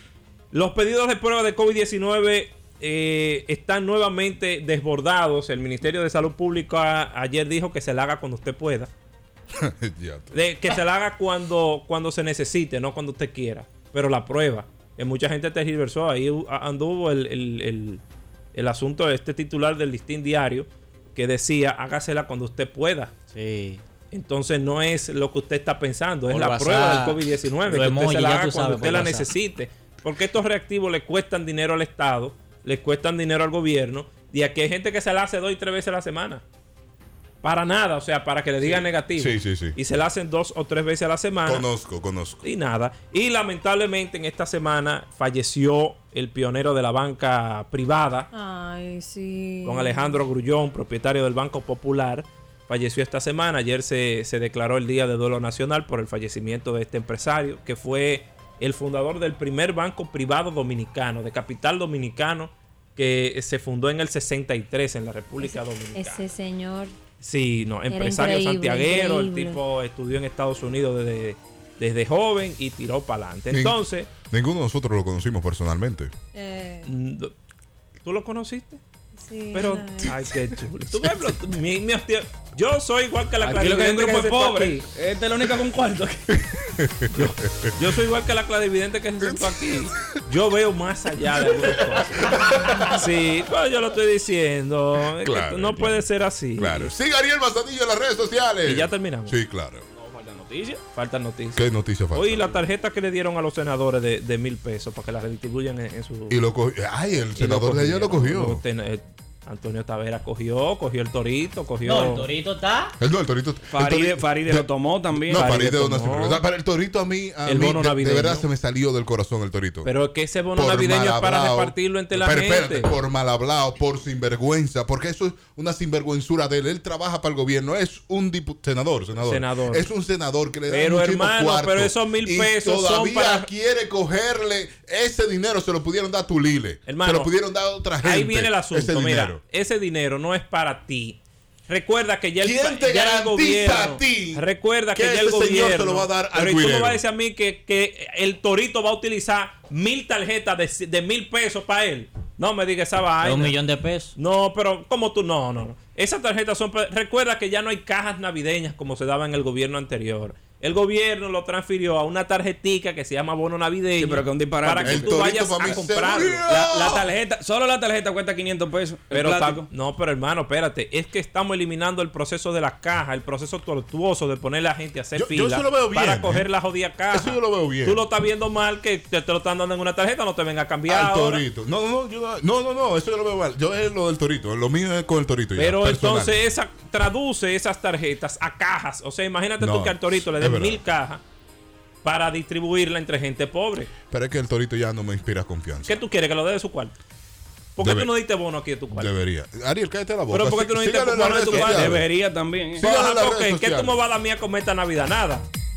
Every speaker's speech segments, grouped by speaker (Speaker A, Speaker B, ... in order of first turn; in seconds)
Speaker A: 0.5-8.9, 10.3-18.0, 18.5-23.1, 24.1-36.4, 37.4-41.6, 42.4-48.3, 49.6-66.2, 67.2-74.1, 76.8-77.3, 78.0-78.8, 79.5-84.8, 87.1-92.3, 92.8-96.9, 98.6-99.3, 100.9-106.4, 107.3-112.3, 115.3-116.4, 117.4-118.5, 119.8-122.9, 129.2-129.9, 130.7-133.5, 136.8-137.3, 138.0-153.6, 154.2-166.6, 169.1-181.4, 185.5-191.2, 192.0-193.9, 195.8-196.9, 197.8-199.1, 200.3-202.0, 202.8-205.5
Speaker B: 9.5-10.3, 38.6-39.8, 41.4-42.4, 73.5-76.1, 86.3-87.8, 89.2-90.1, 91.4-93.0, 95.2-96.0, 96.6-99.8, 101.5-102.5, 106.3-108.6, 113.0-119.9, 120.5-139.4, 142.4-147.0, 164.8-167.1, 175.2-176.5, 177.1-178.0, 180.9-186.4, 189.6-190.8, 194.1-196.0, 197.8-198.1, 198.9-202.1, 202.8-204.0
Speaker C: 23.3-23.8, 26.3-29.3, 111.8-112.9, 153.2-154.1
Speaker D: 48.3-50.2, 65.4-66.9, 67.9-69.6, 76.3-76.9, 79.2-80.2
Speaker E: 83.4-86.4, 99.9-100.8, 113.7-115.7, 164.0-165.3, 166.3-169.7, 201.4-202.8